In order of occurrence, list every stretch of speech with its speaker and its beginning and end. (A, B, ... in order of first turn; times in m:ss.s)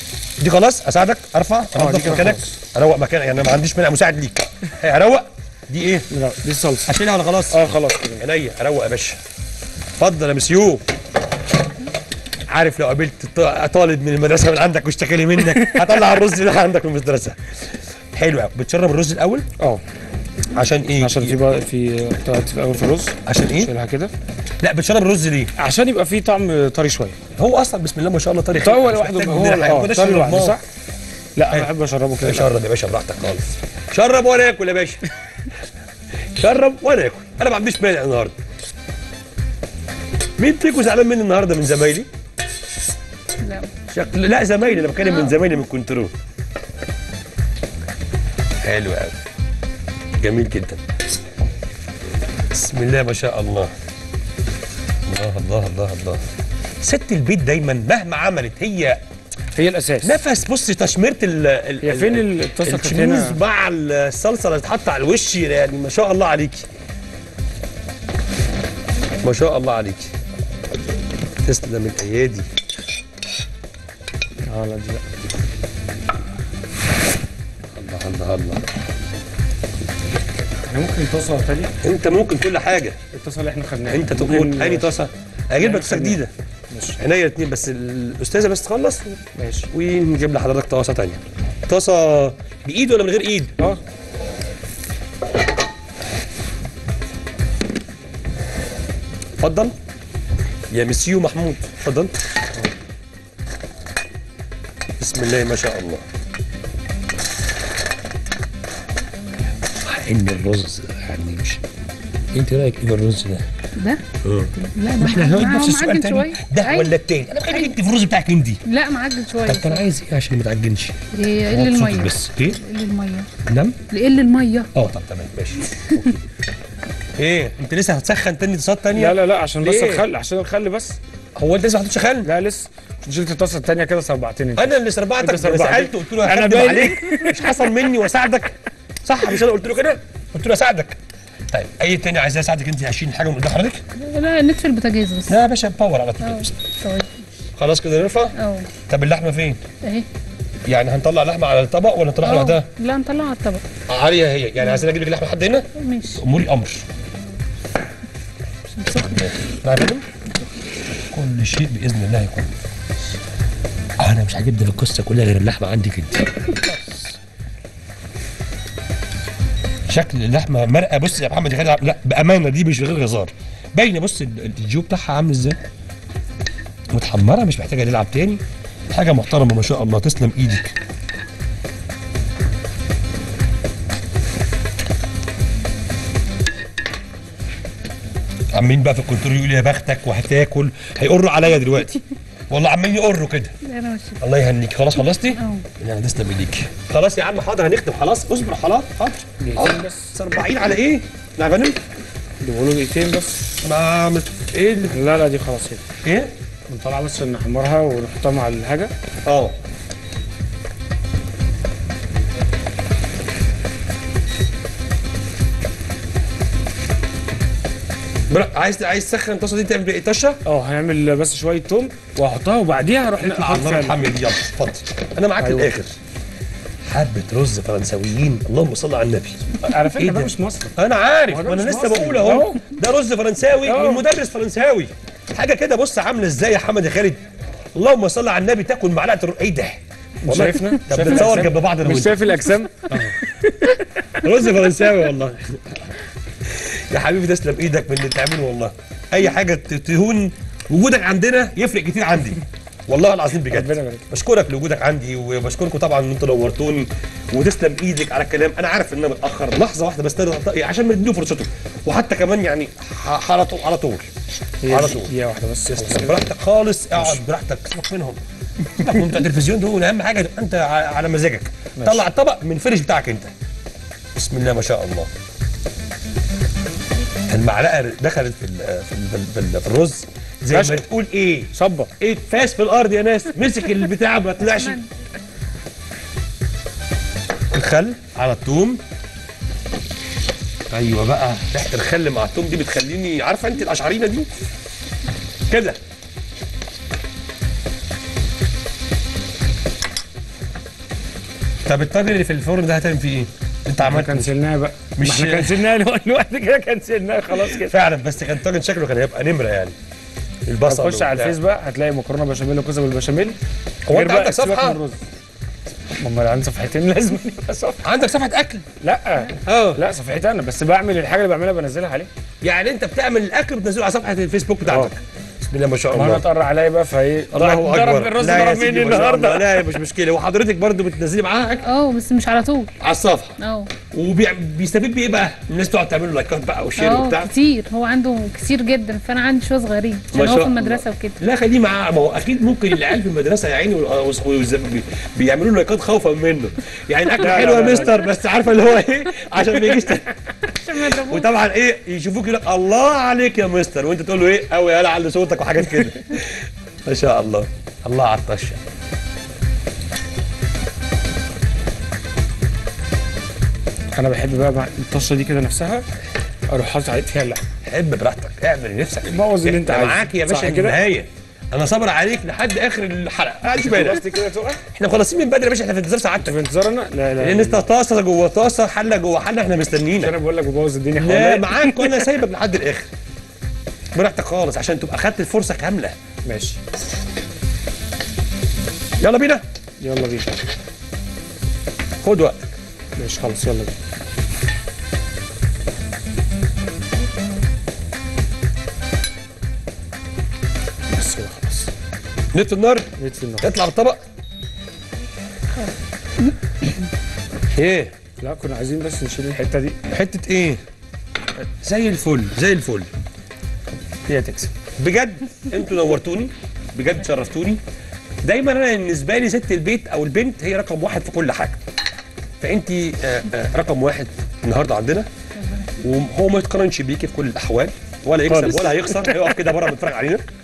0:00.4-0:06.1 A
0:01.7-0:02.6 B
0:06.1-0:06.9 B
0:06.8-0:09.2 A
0:07.5-0:08.2 B
0:10.0-0:10.8 A
0:12.5-0:19.5 A
0:20.5-0:21.4 A
0:21.0-0:24.1 B
0:23.2-0:23.7 A
0:24.6-0:25.5 A
0:25.6-0:27.2 B
0:27.3-0:30.6 A
0:28.6-0:30.6 B
0:31.4-0:32.5 B
0:32.2-0:35.0 A
0:36.3-0:38.3 A
0:40.4-0:42.1 A
0:43.4-0:43.7 C
0:43.9-0:46.1 A
0:48.6-0:49.2 A
0:50.2-0:50.8 A
0:52.5-0:53.7 A
0:55.1-0:56.2 A
0:56.8-0:59.0 A
0:59.5-1:00.2 B
1:00.0-1:06.7 A
1:01.8-1:03.4 B
1:09.2-1:10.1 A
1:11.4-1:12.5 A
1:14.5-1:15.0 B
1:17.7-1:18.6 A
1:20.6-1:21.7 B
1:21.8-1:23.0 A
1:23.1-1:24.9 B
1:23.8-1:26.3 A
1:25.6-1:26.2 B
1:26.7-1:27.0 B
1:27.0-1:33.7 A
1:29.4-1:29.7 B
1:39.4-1:39.7 A
1:40.7-1:42.2 A
1:45.0-1:46.0 A
1:49.8-1:51.6 A
1:52.3-1:53.5 A
1:53.8-1:54.0 C
1:54.2-1:58.6 A
1:54.6-1:56.9 C
1:58.6-1:59.8 C
1:59.5-2:02.6 A
2:01.1-2:03.3 C
2:03.4-2:03.8 A
2:03.9-2:04.7 C
2:04.7-2:06.1 A
2:07.2-2:10.0 A
2:08.9-2:11.0 B
2:11.4-2:12.3 A
2:12.2-2:17.5 B
2:14.6-2:21.0 A
2:21.5-2:23.8 A
2:24.0-2:25.4 C
2:25.3-2:26.5 A
2:26.2-2:27.2 C
2:27.6-2:28.3 A
2:28.3-2:28.7 C
2:28.9-2:29.6 A
2:29.8-2:30.1 C
2:30.7-2:32.7 A
2:32.2-2:33.6 C
2:33.9-2:36.8 A
2:35.7-2:36.2 C
2:38.7-2:40.0 A
2:41.1-2:42.5 A
2:44.0-2:47.2 A
2:49.9-2:55.6 A
2:56.9-3:00.8 A
3:08.5-3:13.6 A
3:13.6-3:14.2 C
3:14.2-3:21.8 A
3:15.3-3:15.7 C
3:19.4-3:20.1 B
3:22.4-3:23.4 B
3:23.6-3:25.0 A
3:24.9-3:25.8 B
3:26.0-3:26.3 A
3:26.7-3:28.9 B
3:29.2-3:29.5 A
3:38.3-3:40.4 A
3:40.4-3:44.0 B
3:43.2-3:46.0 A
3:45.4-3:45.7 B
3:46.9-3:49.4 A
3:49.6-3:50.7 B
3:50.0-3:57.2 A
3:51.3-3:52.6 B
3:53.6-3:54.0 B
3:57.7-4:03.1 A
4:00.2-4:04.2 B
4:04.2-4:05.9 A
4:06.4-4:24.1 A
4:13.5-4:14.1 B
4:24.6-4:26.2 B
4:24.6-4:25.1 A
4:25.7-4:33.3 A
4:31.8-4:32.0 B
4:34.1-4:35.1 A
4:37.3-4:44.8 A
4:40.5-4:40.8 B
4:41.5-4:41.9 B
4:44.6-4:44.9 C
4:47.5-4:48.8 A
4:50.7-4:54.3 A
4:55.5-4:55.8 A
5:01.6-5:04.3 A
5:03.8-5:07.8 B
5:05.0-5:05.7 A
5:07.4-5:09.7 A
5:10.5-5:11.4 A
5:10.6-5:13.4 B
5:13.9-5:14.8 A
5:13.9-5:15.0 B
5:16.0-5:17.8 B
5:17.8-5:18.7 A
5:18.8-5:22.1 B
5:19.4-5:19.8 A
5:22.4-5:26.2 A
5:24.6-5:24.9 B
5:25.9-5:29.7 B
5:27.3-5:31.6 A
5:31.6-5:32.8 C
5:32.8-5:33.4 A
5:33.4-5:33.7 C
5:33.9-5:37.3 A
5:36.8-5:41.2 C
5:40.1-5:50.1 A
5:47.2-5:48.0 B
5:50.4-5:51.3 C
5:50.7-5:58.6 A
6:03.9-6:05.8 B
6:06.5-6:07.4 B
6:07.6-6:14.0 A
6:09.0-6:10.8 B
6:13.4-6:14.6 B
6:14.7-6:16.4 A
6:16.2-6:17.7 B
6:17.2-6:20.1 A
6:20.0-6:22.0 B
6:21.0-6:22.9 A
6:23.9-6:26.0 A
6:26.2-6:26.6 B
6:29.0-6:29.4 A
6:29.8-6:30.4 B
6:32.0-6:32.5 A
6:33.0-6:33.7 B
6:40.9-6:41.7 B
6:42.3-6:42.9 A
6:43.0-6:43.5 B
6:43.4-6:44.0 A
6:47.5-6:47.9 A
6:48.2-6:49.8 B
6:49.9-6:50.6 A
6:51.6-6:52.9 A
6:54.1-6:54.5 B
6:54.8-6:57.6 A
6:58.2-7:01.6 A
7:02.4-7:05.1 A
7:05.8-7:10.2 A
7:08.3-7:09.5 B